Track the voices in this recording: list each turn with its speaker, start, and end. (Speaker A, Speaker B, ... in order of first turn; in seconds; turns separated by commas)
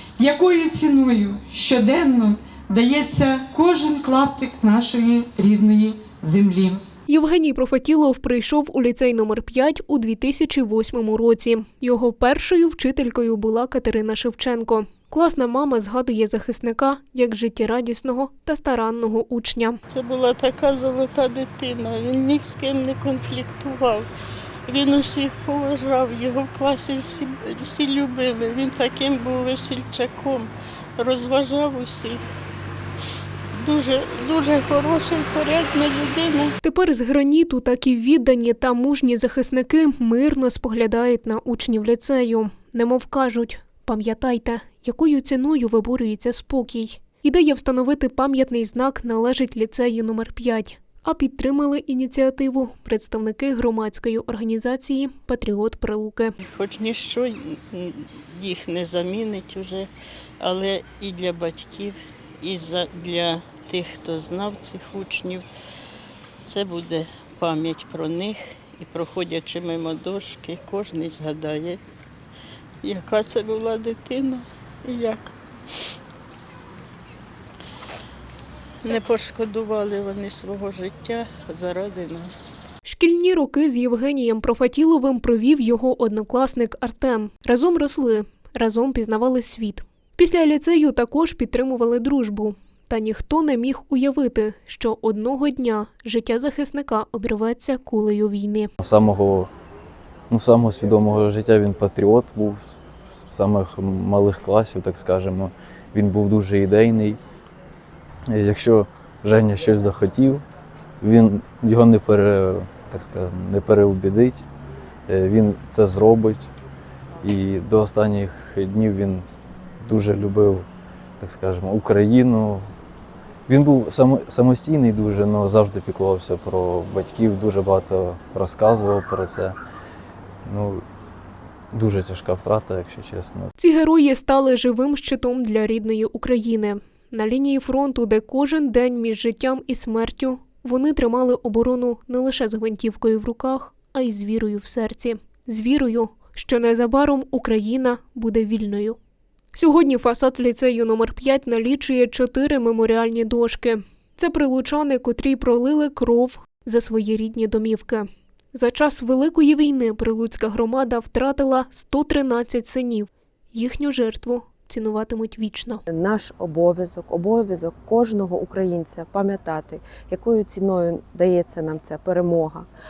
Speaker A: 0.2-6.8, Speaker B: 7.1-19.8, Speaker C: 19.9-24.1, Speaker C: 24.7-32.3, Speaker C: 33.6-36.5, Speaker B: 36.6-56.4, Speaker C: 56.4-65.4, Speaker C: 66.4-71.8, Speaker C: 72.8-75.3, Speaker C: 78.8-82.5, Speaker B: 82.8-98.7, Speaker D: 98.8-99.5, Speaker D: 100.3-107.2, Speaker D: 108.3-110.4, Speaker D: 111.0-114.5, Speaker D: 115.1-116.5, Speaker D: 117.2-119.3, Speaker D: 119.8-120.7, Speaker D: 121.2-122.7, Speaker D: 123.5-129.6, Speaker D: 130.4-130.8, Speaker D: 131.7-133.5, Speaker B: 133.6-149.0, Speaker B: 149.5-165.8, Speaker E: 165.9-172.7